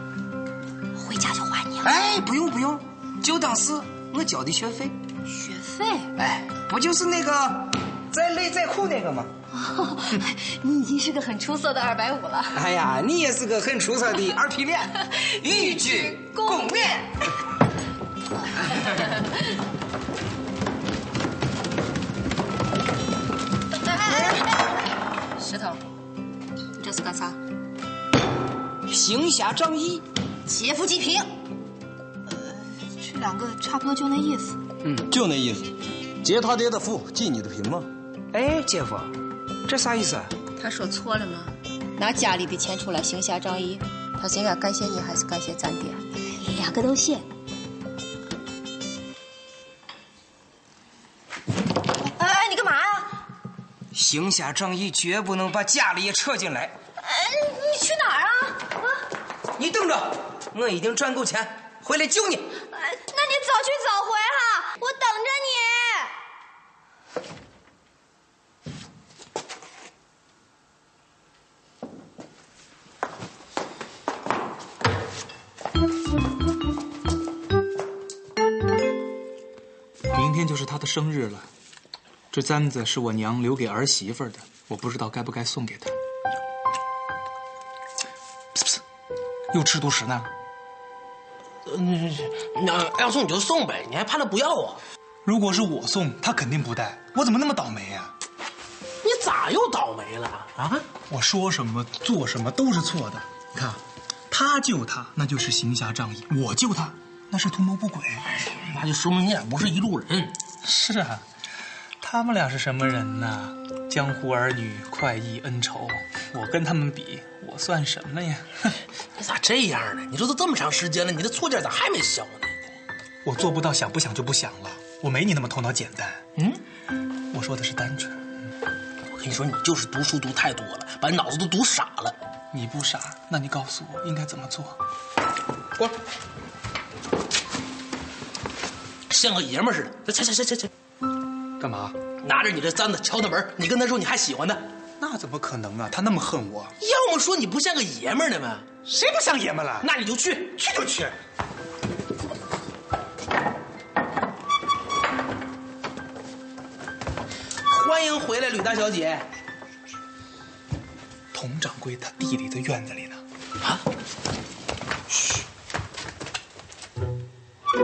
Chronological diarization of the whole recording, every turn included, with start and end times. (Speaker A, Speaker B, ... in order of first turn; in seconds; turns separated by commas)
Speaker A: 1.0-1.9, Speaker B: 1.8-5.0, Speaker A: 5.3-6.1, Speaker B: 6.2-9.3, Speaker A: 9.5-12.6, Speaker B: 12.5-17.1, Speaker A: 15.4-16.7, Speaker A: 23.9-24.4, Speaker C: 25.4-25.8, Speaker C: 26.8-27.4, Speaker B: 28.9-30.1, Speaker A: 30.6-31.2, Speaker A: 32.3-34.6, Speaker B: 34.8-35.1, Speaker D: 35.1-37.9, Speaker B: 38.3-40.3, Speaker C: 40.6-46.0, Speaker A: 46.4-47.2, Speaker A: 52.0-53.1, Speaker B: 53.9-56.8, Speaker A: 57.0-58.8, Speaker B: 59.6-62.5, Speaker A: 62.7-66.1, Speaker E: 80.1-81.5, Speaker E: 82.3-85.9, Speaker E: 89.5-90.3, Speaker F: 91.7-94.8, Speaker E: 95.2-98.1, Speaker F: 99.0-100.9, Speaker E: 101.1-103.3, Speaker E: 104.3-108.3, Speaker F: 108.6-110.3, Speaker E: 110.6-111.2, Speaker E: 112.0-118.6, Speaker F: 119.2-122.7, Speaker E: 123.2-126.2, Speaker E: 127.3-128.2, Speaker F: 129.1-132.2, Speaker E: 132.5-134.8, Speaker F: 139.1-140.7, Speaker E: 141.6-142.0, Speaker F: 142.2-144.7, Speaker E: 145.0-146.7, Speaker F: 146.8-148.8, Speaker E: 148.8-149.9, Speaker F: 149.8-151.1, Speaker E: 150.8-151.0, Speaker F: 157.7-159.3, Speaker E: 161.3-163.2